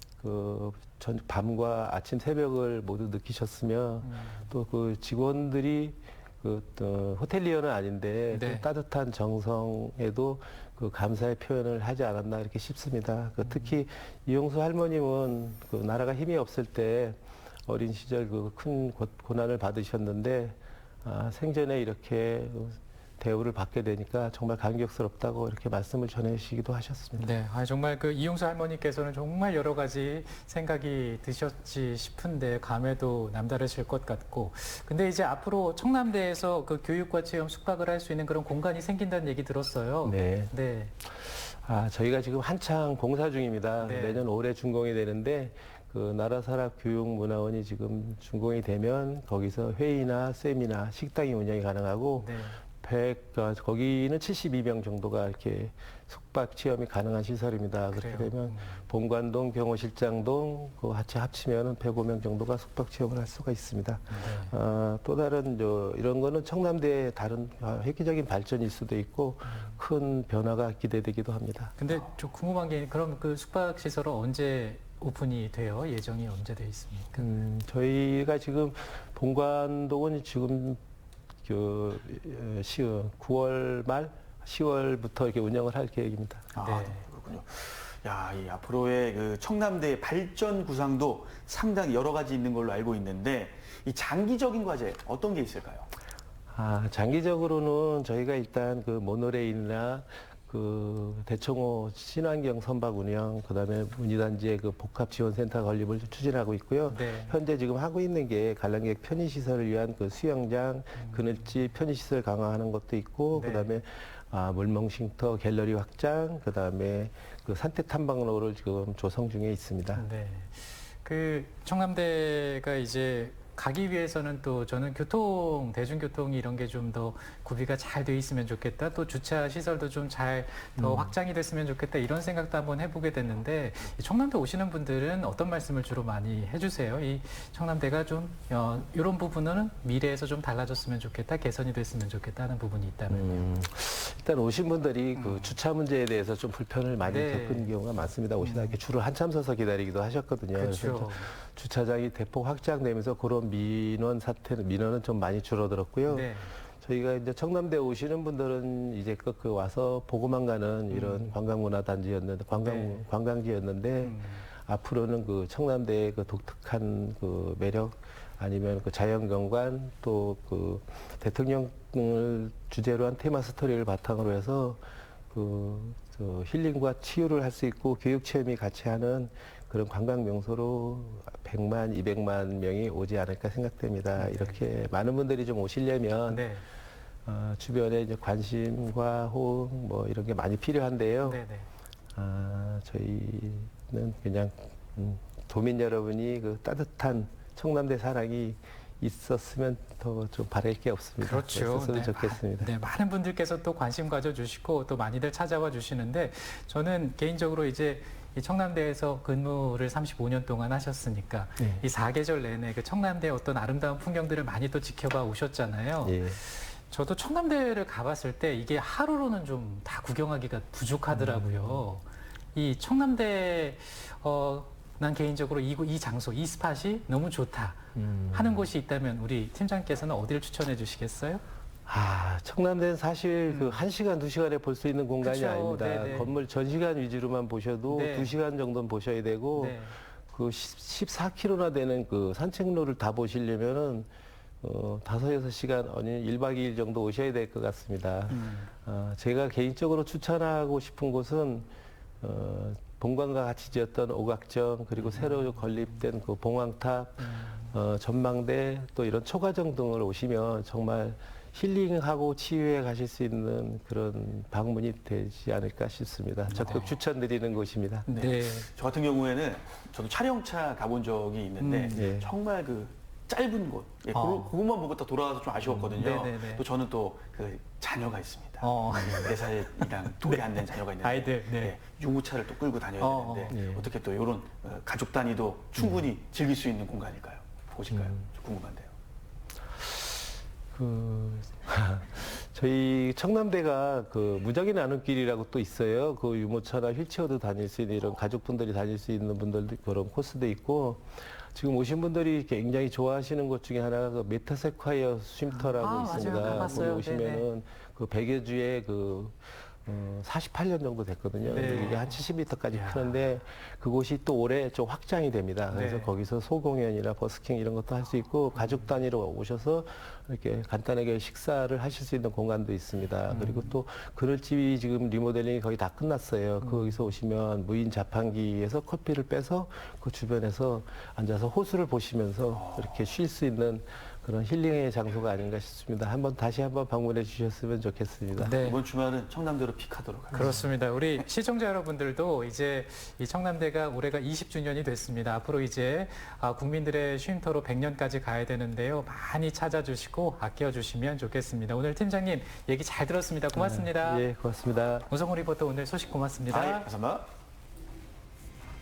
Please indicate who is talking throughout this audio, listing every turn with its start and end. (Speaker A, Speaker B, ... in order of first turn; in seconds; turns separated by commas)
Speaker A: 0.2-27.3, Speaker B: 4.0-4.5, Speaker B: 8.3-8.7, Speaker B: 13.4-13.7, Speaker B: 27.2-40.9, Speaker A: 40.0-40.5, Speaker A: 41.0-71.8, Speaker B: 43.8-44.2, Speaker B: 52.2-52.6, Speaker B: 57.9-58.8, Speaker B: 64.1-64.5, Speaker B: 71.8-77.3, Speaker A: 77.2-80.8, Speaker A: 81.4-86.5, Speaker C: 86.5-95.9, Speaker B: 86.6-87.0, Speaker A: 96.5-120.0, Speaker B: 106.9-107.4, Speaker B: 111.0-111.2, Speaker B: 113.3-113.7, Speaker B: 120.0-143.4, Speaker A: 130.8-131.1, Speaker A: 143.1-186.5, Speaker B: 145.2-145.6, Speaker B: 147.0-147.7, Speaker B: 148.4-148.8, Speaker B: 150.5-151.3, Speaker B: 156.1-156.5, Speaker B: 160.9-161.3, Speaker B: 162.6-163.0, Speaker B: 164.0-164.4, Speaker B: 184.2-184.6, Speaker B: 186.3-186.7, Speaker A: 187.2-191.4, Speaker B: 191.2-191.7, Speaker A: 192.1-202.7, Speaker B: 201.2-231.4, Speaker A: 211.6-211.8, Speaker A: 216.0-216.4, Speaker A: 221.1-221.8, Speaker A: 227.9-228.6, Speaker A: 231.8-244.1, Speaker B: 233.5-233.8, Speaker B: 235.2-236.3, Speaker B: 237.9-238.3, Speaker B: 239.6-240.0, Speaker A: 244.6-251.7, Speaker B: 248.3-248.7, Speaker A: 252.2-268.1, Speaker B: 257.3-257.7, Speaker B: 266.5-267.0, Speaker B: 268.1-268.7, Speaker C: 268.1-288.9, Speaker B: 271.6-272.0, Speaker A: 271.9-272.3, Speaker B: 274.1-274.5, Speaker B: 275.6-276.6, Speaker B: 278.6-281.8, Speaker B: 283.0-283.6, Speaker A: 283.5-283.9, Speaker A: 285.8-286.0, Speaker A: 287.9-288.2, Speaker A: 290.7-338.6, Speaker B: 305.5-307.5, Speaker B: 311.4-312.2, Speaker B: 312.7-313.2, Speaker B: 315.7-316.1, Speaker B: 318.6-318.8, Speaker B: 323.3-323.7, Speaker B: 326.6-327.0, Speaker C: 332.5-332.9, Speaker B: 338.4-338.8, Speaker C: 338.6-340.7, Speaker B: 340.3-354.2, Speaker A: 353.5-355.1, Speaker B: 355.1-356.9, Speaker C: 356.5-357.3